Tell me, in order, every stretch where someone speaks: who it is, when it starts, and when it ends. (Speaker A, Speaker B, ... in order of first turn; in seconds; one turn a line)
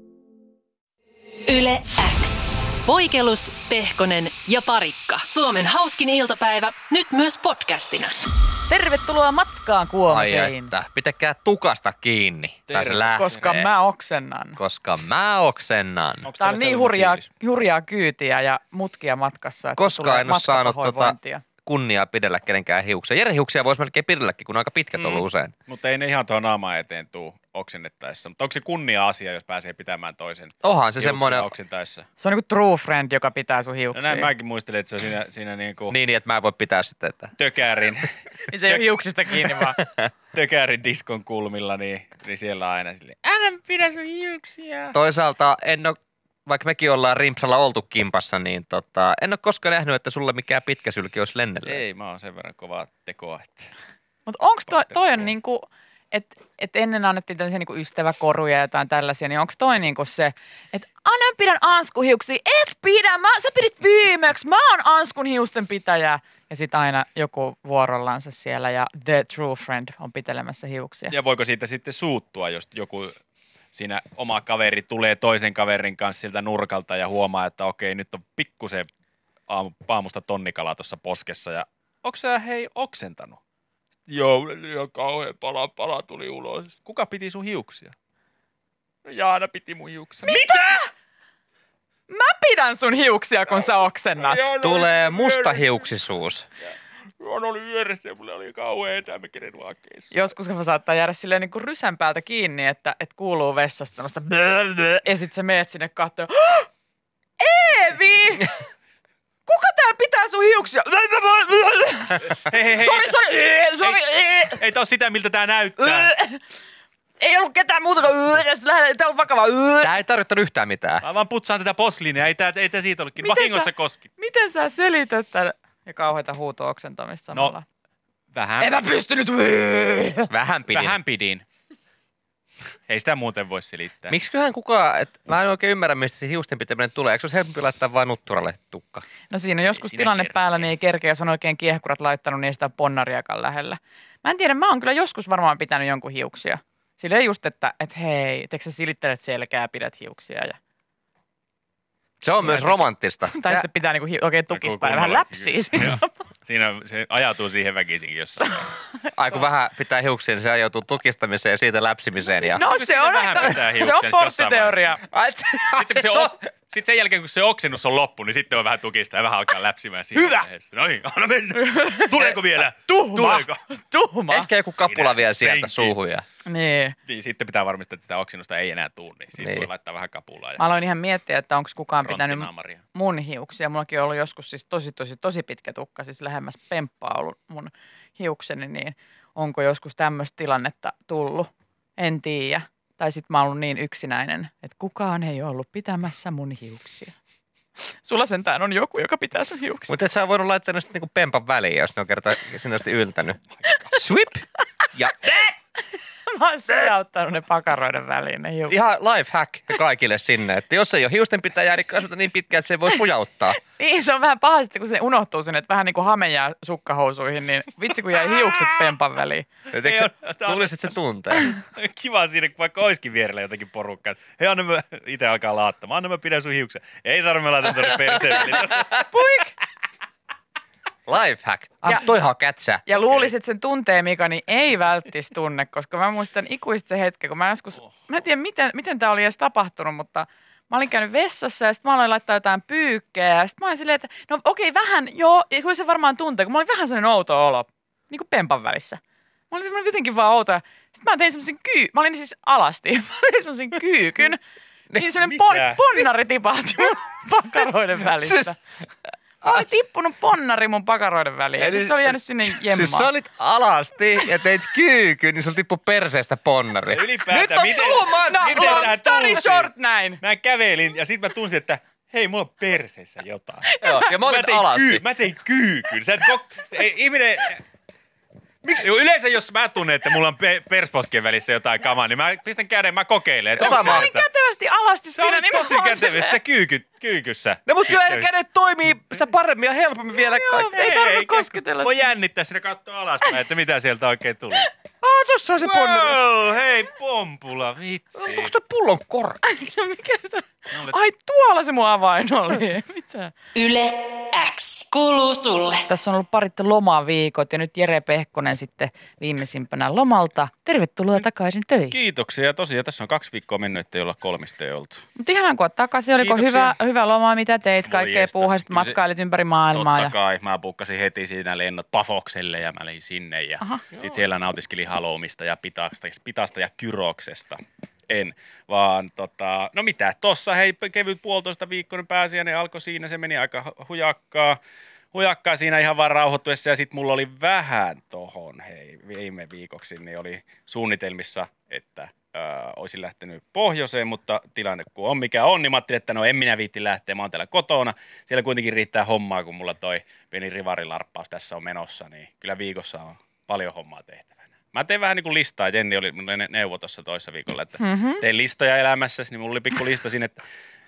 Speaker A: 1.4-8.2
Speaker B: 8.7-10.7
Speaker C: 10.1-13.7
Speaker D: 12.7-13.6
Speaker B: 13.2-14.6
Speaker C: 14.6-16.3
Speaker D: 16.2-17.2
Speaker B: 16.4-21.4
Speaker C: 19.8-25.5
Speaker D: 25.0-32.0
Speaker C: 30.6-31.5
Speaker B: 32.2-34.3
Speaker D: 33.9-36.0
Speaker C: 35.9-37.3
Speaker D: 37.4-38.1
Speaker B: 38.5-39.8
Speaker C: 39.8-40.1
Speaker D: 40.3-45.0
Speaker C: 44.9-51.8
Speaker D: 51.6-53.7
Speaker B: 54.2-71.1
Speaker D: 54.7-55.0
Speaker D: 71.1-73.1
Speaker D: 73.7-78.9
Speaker D: 79.5-83.4
Speaker D: 84.1-87.9
Speaker D: 89.0-90.8
Speaker B: 90.2-90.9
Speaker B: 92.1-94.5
Speaker D: 94.2-95.8
Speaker C: 94.6-96.5
Speaker D: 97.2-100.2
Speaker B: 100.1-106.7
Speaker B: 107.4-108.5
Speaker B: 109.5-114.6
Speaker D: 112.4-113.2
Speaker D: 114.5-116.1
Speaker B: 115.8-116.4
Speaker B: 117.2-119.9
Speaker C: 119.8-121.0
Speaker D: 121.0-124.1
Speaker B: 123.2-127.6
Speaker D: 128.3-128.8
Speaker B: 128.6-130.3
Speaker C: 130.3-130.9
Speaker D: 130.7-131.4
Speaker D: 132.9-134.2
Speaker C: 134.1-139.0
Speaker B: 139.3-150.6
Speaker D: 139.8-140.3
Speaker C: 152.2-153.7
Speaker B: 152.4-156.1
Speaker D: 154.5-158.5
Speaker B: 158.4-159.4
Speaker C: 159.1-162.6
Speaker B: 162.4-165.1
Speaker D: 162.6-164.8
Speaker C: 165.1-166.3
Speaker D: 165.7-173.6
Speaker B: 171.6-172.2
Speaker B: 172.9-174.5
Speaker C: 174.3-176.2
Speaker D: 174.8-176.0
Speaker B: 176.4-176.9
Speaker D: 177.1-180.6
Speaker B: 180.6-197.1
Speaker D: 182.0-182.8
Speaker B: 198.0-199.9
Speaker C: 199.9-205.4
Speaker B: 206.2-208.8
Speaker C: 208.7-213.6
Speaker B: 213.6-219.5
Speaker C: 219.7-221.5
Speaker D: 219.7-229.0
Speaker B: 229.1-229.5
Speaker C: 231.1-232.8
Speaker B: 232.9-254.4
Speaker B: 254.9-258.6
Speaker D: 255.4-255.8
Speaker C: 258.2-258.5
Speaker B: 259.4-263.1
Speaker C: 261.6-268.9
Speaker D: 266.9-277.6
Speaker B: 268.1-270.2
Speaker C: 273.8-275.0
Speaker D: 278.7-284.2
Speaker C: 283.6-284.1
Speaker B: 283.6-286.4
Speaker D: 285.1-288.3
Speaker C: 287.6-290.8
Speaker B: 290.2-292.1
Speaker D: 290.7-294.6
Speaker C: 295.0-296.2
Speaker D: 295.6-298.5
Speaker C: 298.2-299.4
Speaker B: 299.4-303.3
Speaker D: 300.7-301.0
Speaker A: 303.5-305.9
Speaker B: 305.9-312.0
Speaker D: 311.9-315.0
Speaker B: 315.1-320.1
Speaker D: 316.2-316.7
Speaker D: 317.8-319.0
Speaker D: 319.7-334.6
Speaker D: 335.1-360.4
Speaker B: 357.8-358.2